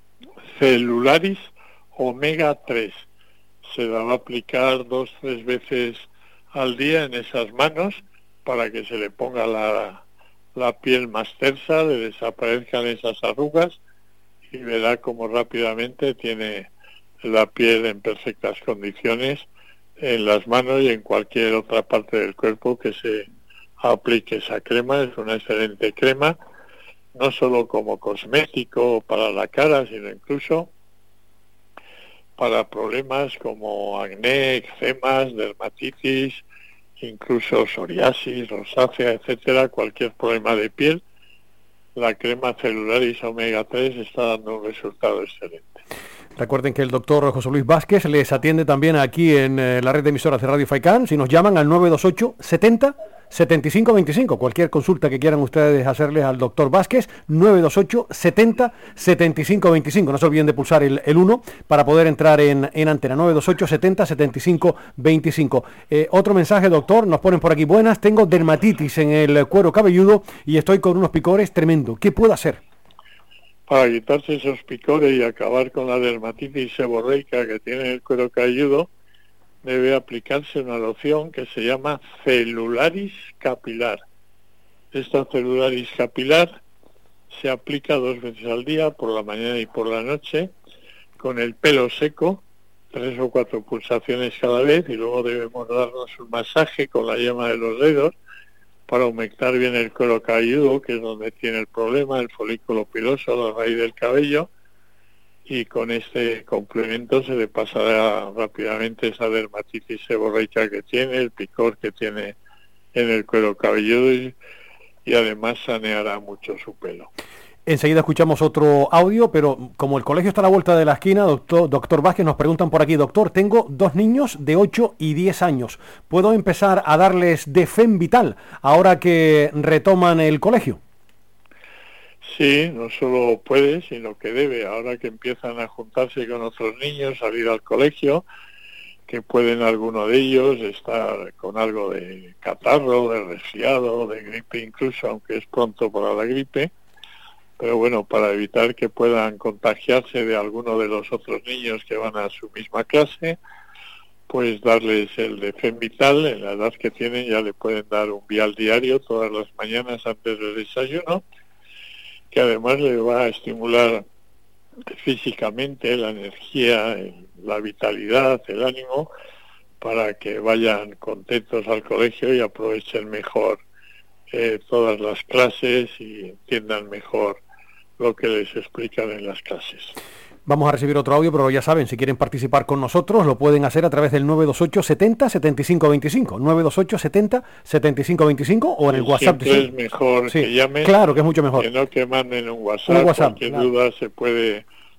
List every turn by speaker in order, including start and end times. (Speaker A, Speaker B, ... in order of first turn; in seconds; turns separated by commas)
Speaker A: 0.5-3.0, Speaker A: 3.6-10.0, Speaker A: 10.6-13.8, Speaker A: 14.5-16.7, Speaker A: 17.2-19.5, Speaker A: 20.0-23.3, Speaker A: 23.8-26.4, Speaker A: 27.1-30.7, Speaker A: 32.4-36.4, Speaker A: 37.0-41.0, Speaker A: 42.0-45.8, Speaker B: 46.4-72.6, Speaker A: 73.7-78.9, Speaker A: 79.6-84.0, Speaker A: 84.9-86.5, Speaker A: 87.3-90.5, Speaker A: 91.2-92.4, Speaker A: 92.9-98.2, Speaker A: 98.9-104.5, Speaker A: 105.5-112.4, Speaker A: 112.9-114.4, Speaker A: 115.0-117.1, Speaker B: 117.7-130.8, Speaker A: 132.2-138.2, Speaker A: 139.1-146.7, Speaker A: 147.6-153.4, Speaker A: 154.3-161.2, Speaker A: 162.3-164.0, Speaker A: 164.9-169.1, Speaker A: 169.8-173.6, Speaker A: 174.3-177.4, Speaker A: 178.0-179.9, Speaker B: 180.5-189.7, Speaker A: 188.9-190.9, Speaker B: 190.3-191.7, Speaker A: 191.6-194.7, Speaker B: 192.9-193.4